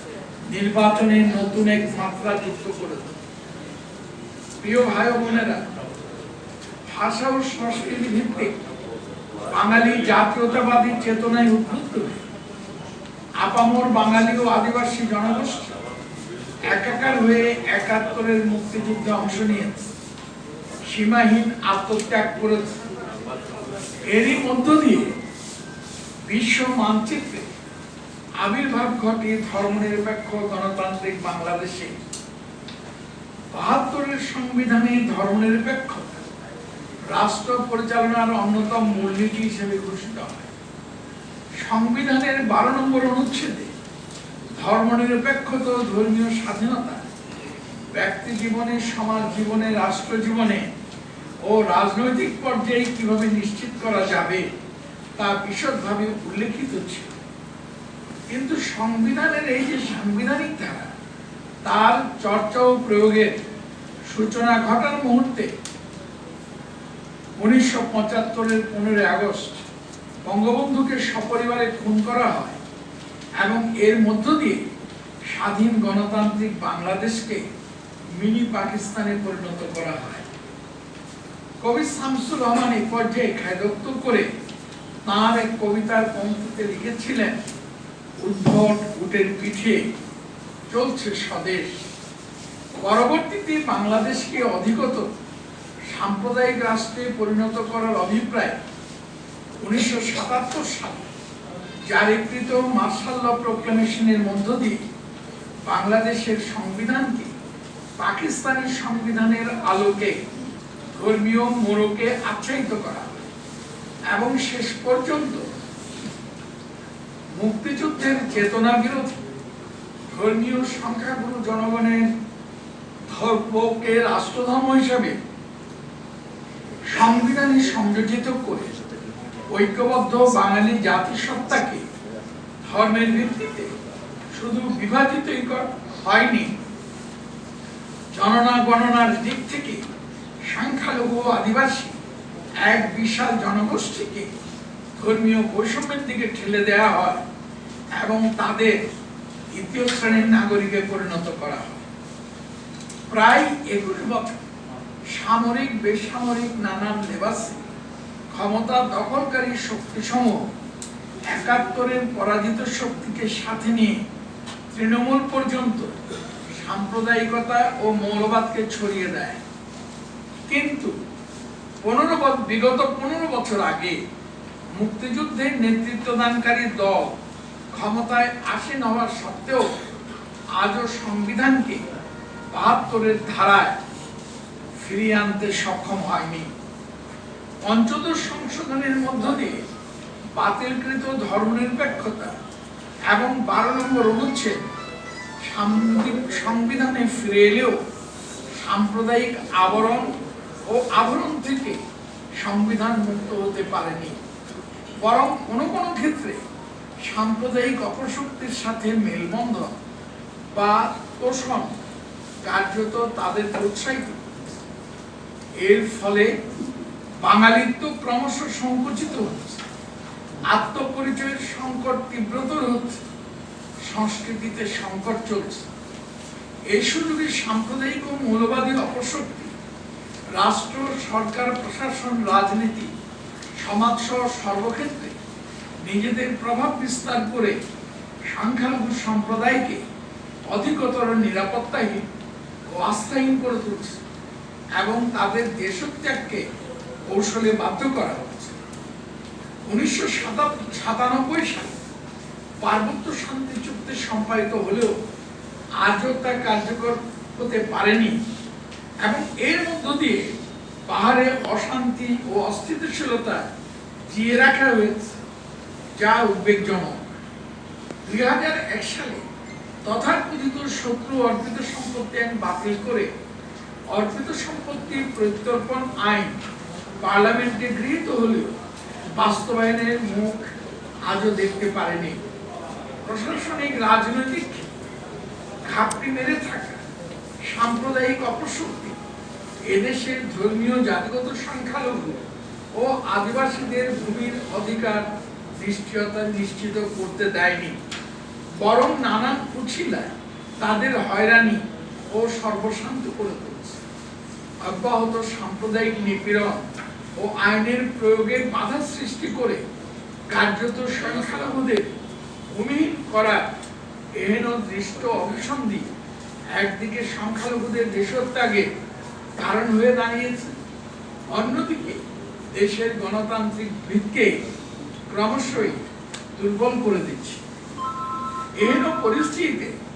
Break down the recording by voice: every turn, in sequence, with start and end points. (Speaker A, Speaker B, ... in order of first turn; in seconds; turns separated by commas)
Speaker A: 0.5-3.2, Speaker A: 4.6-5.7, Speaker A: 6.9-8.5, Speaker A: 9.5-12.2, Speaker A: 13.4-15.8, Speaker A: 16.7-19.9, Speaker A: 20.9-22.8, Speaker A: 24.1-25.1, Speaker A: 26.2-27.5, Speaker A: 28.4-31.9, Speaker A: 33.5-36.2, Speaker A: 37.1-40.5, Speaker A: 41.6-43.7, Speaker A: 44.6-47.0, Speaker A: 47.9-50.7, Speaker A: 51.4-54.5, Speaker A: 55.2-57.1, Speaker A: 58.3-60.9, Speaker A: 61.6-63.4, Speaker A: 64.1-65.5, Speaker A: 67.4-69.6, Speaker A: 70.2-72.6, Speaker A: 73.4-74.6, Speaker A: 75.2-77.4, Speaker A: 78.2-80.3, Speaker A: 81.6-84.3, Speaker A: 85.0-87.4, Speaker A: 88.2-89.9, Speaker A: 90.7-91.8, Speaker A: 92.8-95.1, Speaker A: 95.9-98.6, Speaker A: 99.6-101.1, Speaker A: 101.9-104.8, Speaker A: 105.7-107.3, Speaker A: 108.0-110.2, Speaker A: 110.9-113.2, Speaker A: 114.1-115.5, Speaker A: 117.3-119.2, Speaker A: 120.1-122.1, Speaker A: 123.1-125.2, Speaker A: 126.9-128.7, Speaker A: 129.5-131.8, Speaker A: 132.6-133.7, Speaker A: 134.3-136.5, Speaker A: 138.1-139.8, Speaker A: 140.4-142.0, Speaker A: 142.6-144.3, Speaker A: 144.9-147.2, Speaker A: 147.9-148.8, Speaker A: 149.5-151.8, Speaker A: 153.1-154.4, Speaker A: 155.1-157.6, Speaker A: 158.3-160.5, Speaker A: 161.3-164.0, Speaker A: 164.7-165.9, Speaker A: 166.6-169.4, Speaker A: 170.5-170.9, Speaker A: 171.8-174.0, Speaker A: 174.8-177.2, Speaker A: 177.7-179.7, Speaker A: 180.6-181.8, Speaker A: 182.5-183.8, Speaker A: 184.8-186.5, Speaker A: 187.6-189.6, Speaker A: 190.4-192.3, Speaker A: 193.1-194.6, Speaker A: 195.4-197.8, Speaker A: 198.6-201.8, Speaker A: 202.4-204.2, Speaker A: 205.0-206.4, Speaker A: 207.0-209.8, Speaker A: 210.5-211.8, Speaker A: 212.4-214.3, Speaker A: 215.6-216.3, Speaker A: 217.2-219.6, Speaker A: 220.5-223.0, Speaker A: 223.8-225.7, Speaker A: 226.7-229.5, Speaker A: 230.4-232.9, Speaker A: 233.6-235.2, Speaker A: 235.8-237.6, Speaker A: 238.3-239.8, Speaker A: 240.5-242.1, Speaker A: 242.7-244.0, Speaker A: 244.8-246.4, Speaker A: 247.1-248.6, Speaker A: 249.7-251.8, Speaker A: 252.6-254.9, Speaker A: 255.8-258.2, Speaker A: 259.0-260.3, Speaker A: 260.9-263.5, Speaker A: 264.1-265.1, Speaker A: 265.9-267.0, Speaker A: 268.0-269.2, Speaker A: 269.9-273.1, Speaker A: 273.9-276.4, Speaker A: 277.0-278.6, Speaker A: 279.1-280.5, Speaker A: 281.1-282.2, Speaker A: 283.0-284.7, Speaker A: 285.6-286.8, Speaker A: 287.4-289.0, Speaker A: 289.6-295.0, Speaker A: 295.6-297.8, Speaker A: 298.6-303.8, Speaker A: 304.6-309.6, Speaker A: 310.3-312.0, Speaker A: 312.5-313.4, Speaker A: 314.2-315.9, Speaker A: 316.5-318.7, Speaker A: 319.4-320.6, Speaker A: 321.3-324.4, Speaker A: 325.1-325.8, Speaker A: 326.4-327.4, Speaker A: 328.6-329.8